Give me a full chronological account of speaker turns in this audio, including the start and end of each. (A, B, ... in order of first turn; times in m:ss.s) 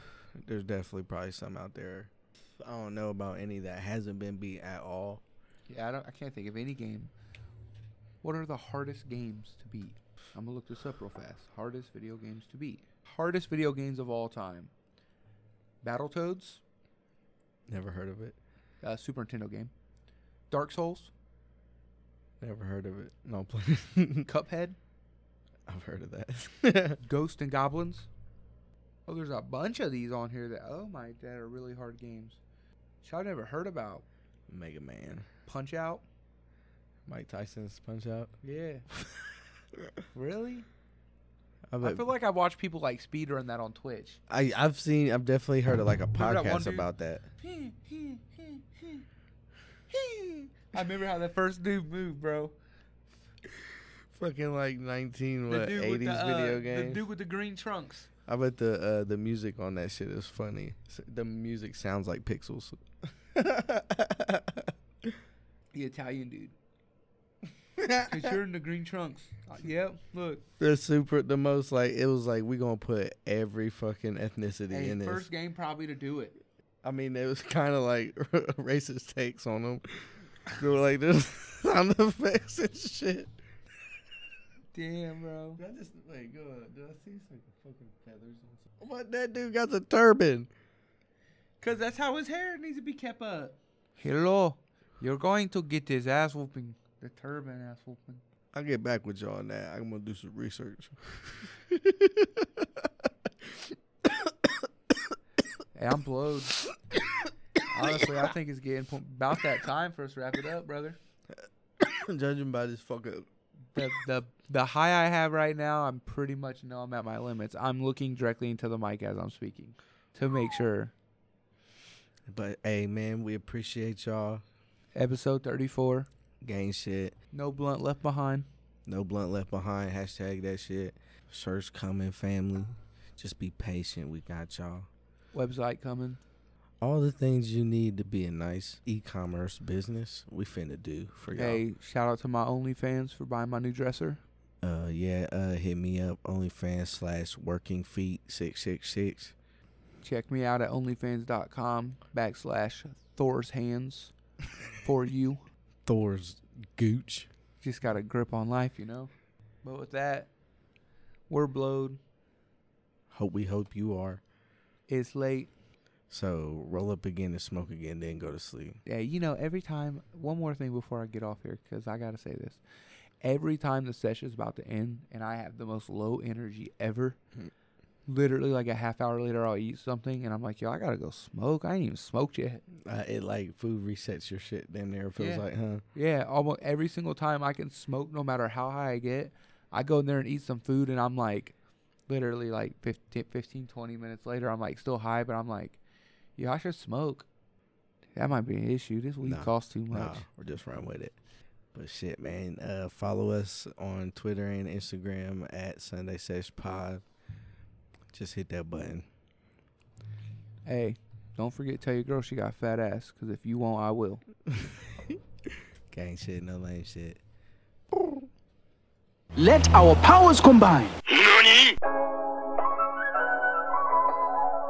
0:00.4-0:05.2 A
0:05.7-0:07.1 B
0:08.2-0:14.7 B
0:15.8-0:16.6 B
0:17.7-0:18.4 A
0:18.8-0:19.7 B
0:20.5-0:21.1 B
0:22.4-0:24.3 A
0:24.3-0:24.8 B
0:25.7-0:27.0 A
0:27.0-0:28.1 B
0:29.1-0:32.4 B
0:33.0-0:34.0 B
0:34.5-0:35.3 A
0:35.4-0:36.0 B
0:37.0-0:38.3 A
0:38.4-0:38.8 B
0:38.9-0:39.3 A
0:40.1-0:40.7 B
0:41.7-0:42.0 A
0:41.8-0:44.2 B
0:44.3-0:47.2 A
0:46.2-0:46.9 B
0:47.4-0:49.0 B
0:49.9-0:52.5 B
0:53.6-0:57.0 A
0:55.5-0:58.1 B
0:58.3-1:05.1 A
1:05.7-1:06.5 B
1:07.8-1:08.4 A
1:08.0-1:10.4 B
1:10.6-1:15.2 A
1:14.7-1:16.4 B
1:16.8-1:23.3 A
1:24.7-1:25.6 B
1:25.6-1:30.5 A
1:31.6-1:38.2 B
1:38.5-1:44.5 A
1:45.7-1:46.6 B
1:47.7-1:51.0 B
1:47.8-1:48.1 A
1:51.8-1:53.3 A
1:53.7-2:00.9 B
2:02.3-2:04.4 A
2:04.9-2:06.1 B
2:06.4-2:07.1 A
2:07.3-2:08.5 B
2:08.9-2:14.9 A
2:15.3-2:16.2 B
2:16.8-2:21.6 A
2:21.3-2:24.2 B
2:24.6-2:29.3 A
2:30.0-2:34.1 B
2:34.8-2:35.4 B
2:35.8-2:37.3 A
2:37.6-2:39.1 B
2:39.6-2:40.3 B
2:41.3-2:42.0 B
2:43.1-2:44.2 A
2:44.9-2:45.5 B
2:46.1-2:48.8 A
2:48.8-2:52.6 B
2:53.2-2:57.2 B
2:58.1-3:02.6 B
3:02.7-3:05.8 A
3:05.2-3:11.5 B
3:12.1-3:15.8 B
3:16.4-3:17.3 B
3:18.2-3:20.2 B
3:19.2-3:21.2 A
3:21.7-3:27.0 A
3:28.1-3:29.1 A
3:30.6-3:34.2 B
3:34.5-3:35.2 A
3:35.9-3:37.2 A
3:39.4-3:41.8 C